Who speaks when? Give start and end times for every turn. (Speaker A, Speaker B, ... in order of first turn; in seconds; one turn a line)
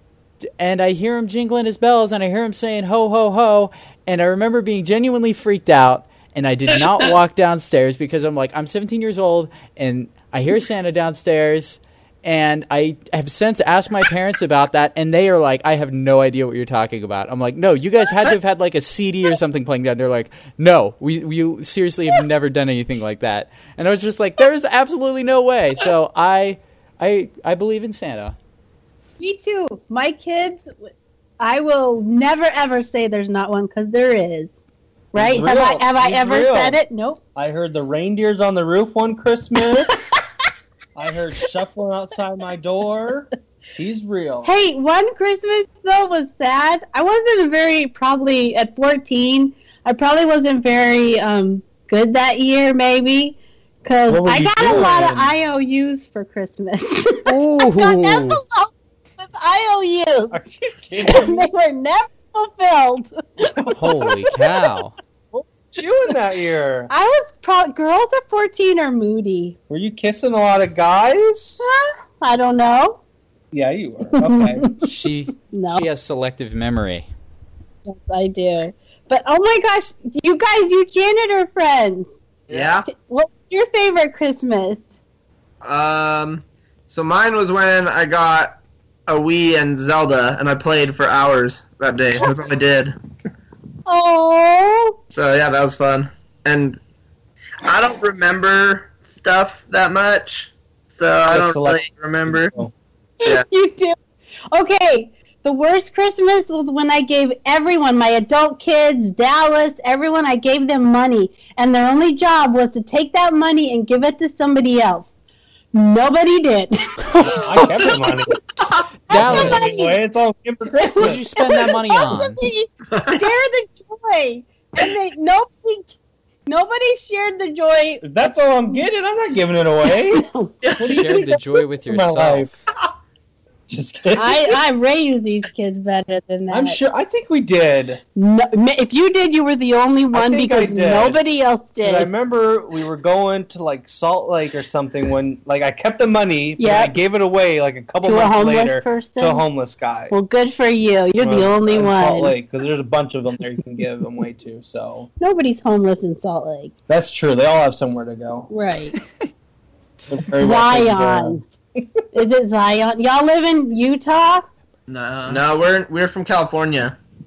Speaker A: 0.4-28.4
Speaker B: 29.2-30.9
Speaker B: 31.4-34.5
Speaker C: 35.1-36.8
Speaker B: 35.1-37.2
Speaker C: 37.4-40.1
Speaker C: 41.0-44.5
Speaker B: 44.4-60.4
Speaker C: 54.1-55.3
Speaker A: 57.3-58.4
Speaker C: 60.3-61.5
Speaker B: 61.0-64.0
Speaker A: 63.7-64.9
Speaker C: 65.3-66.9
Speaker B: 66.9-69.6
Speaker C: 69.7-71.6
Speaker B: 71.6-73.0
Speaker C: 73.5-74.7
Speaker B: 74.1-74.9
Speaker A: 74.8-77.1
Speaker B: 75.5-75.8
Speaker B: 77.9-82.2
Speaker D: 82.5-82.9
Speaker B: 82.9-84.8
Speaker D: 85.6-88.5
Speaker D: 89.1-93.0
Speaker B: 93.9-95.0
Speaker D: 95.1-96.8
Speaker E: 97.6-102.5
Speaker C: 101.3-102.7
Speaker B: 103.2-104.0
Speaker B: 104.5-115.1
Speaker B: 115.7-118.2
Speaker A: 117.1-117.4
Speaker C: 117.3-118.4
Speaker A: 119.1-119.8
Speaker B: 119.1-120.0
Speaker C: 119.1-121.2
Speaker B: 120.8-125.9
Speaker A: 121.0-122.4
Speaker B: 126.5-128.0
Speaker C: 128.0-132.5
Speaker B: 129.9-130.5
Speaker A: 130.8-132.6
Speaker C: 133.7-134.6
Speaker B: 134.1-136.8
Speaker C: 136.5-138.0
Speaker B: 138.2-142.1
Speaker C: 140.1-141.2
Speaker C: 141.8-150.2
Speaker B: 146.6-146.9
Speaker B: 148.0-149.4
Speaker B: 150.1-152.3
Speaker C: 151.2-155.1
Speaker B: 155.2-156.7
Speaker C: 156.9-158.5
Speaker B: 158.5-158.9
Speaker C: 160.1-162.0
Speaker B: 160.3-161.4
Speaker B: 162.1-164.4
Speaker E: 164.9-165.4
Speaker D: 165.3-166.9